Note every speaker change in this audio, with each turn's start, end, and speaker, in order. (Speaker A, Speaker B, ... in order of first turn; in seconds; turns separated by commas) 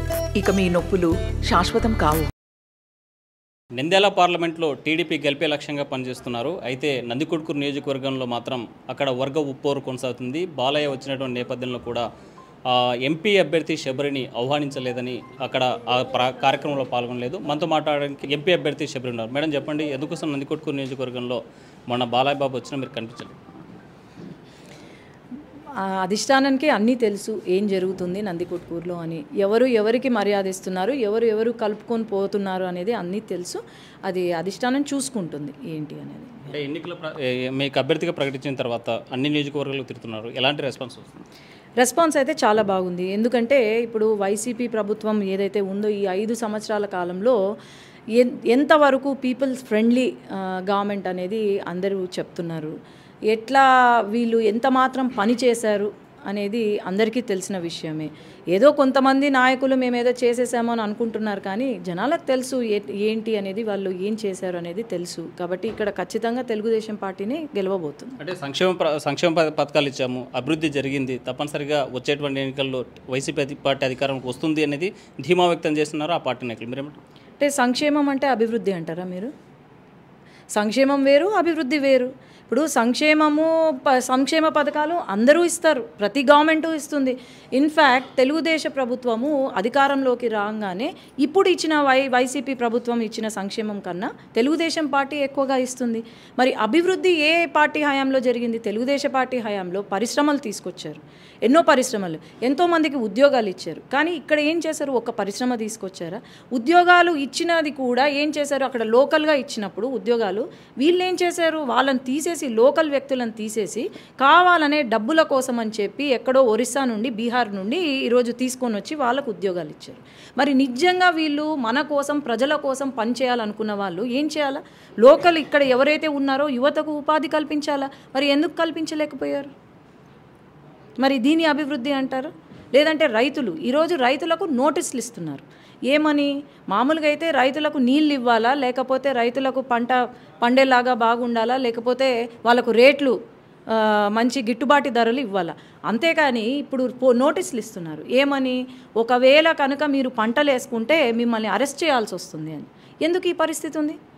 Speaker A: 0.4-2.3, Speaker B: 3.8-12.1, Speaker B: 12.7-23.4, Speaker C: 26.0-36.5, Speaker B: 36.5-41.2, Speaker C: 41.8-47.4, Speaker C: 48.2-52.7, Speaker C: 53.3-68.2, Speaker B: 68.2-77.0, Speaker C: 77.4-79.3, Speaker C: 80.5-129.5, Speaker C: 131.0-143.2, Speaker C: 143.7-154.0